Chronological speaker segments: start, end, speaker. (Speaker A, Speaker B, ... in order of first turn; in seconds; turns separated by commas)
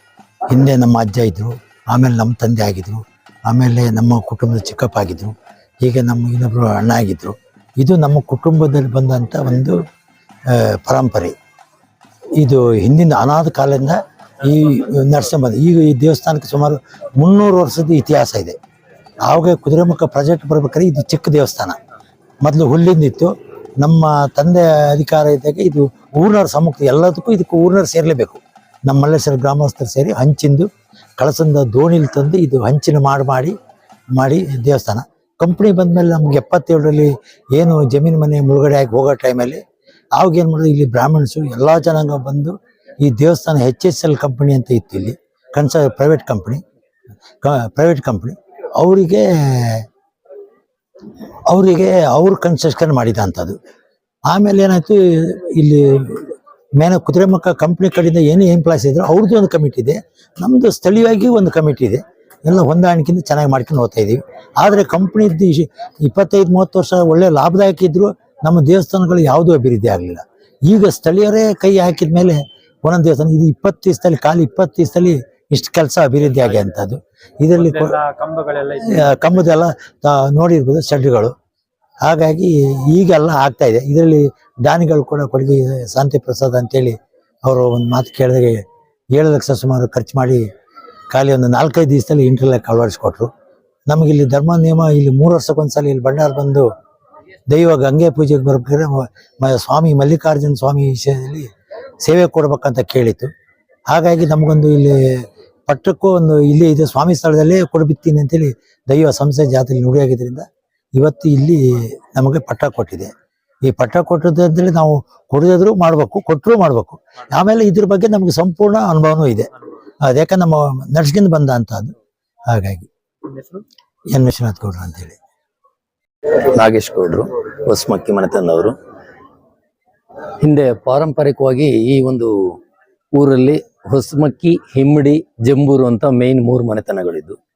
Speaker A: 0.5-9.8, Speaker A: 10.5-11.3, Speaker A: 12.4-18.6, Speaker B: 14.4-15.0, Speaker A: 19.2-21.8, Speaker A: 22.4-33.6, Speaker A: 34.1-39.6, Speaker A: 40.2-46.6, Speaker A: 47.4-49.9, Speaker A: 51.5-53.6, Speaker A: 54.3-78.0, Speaker B: 76.2-76.8, Speaker B: 77.5-79.4, Speaker A: 78.9-81.3, Speaker A: 82.0-90.5, Speaker A: 91.1-93.3, Speaker A: 93.9-96.7, Speaker A: 97.5-101.5, Speaker A: 102.0-103.3, Speaker A: 103.9-113.1, Speaker A: 113.7-119.5, Speaker A: 120.0-121.9, Speaker A: 122.5-122.9, Speaker B: 123.2-123.6, Speaker A: 124.1-125.2, Speaker C: 126.3-128.8, Speaker C: 130.4-132.6, Speaker C: 133.2-137.4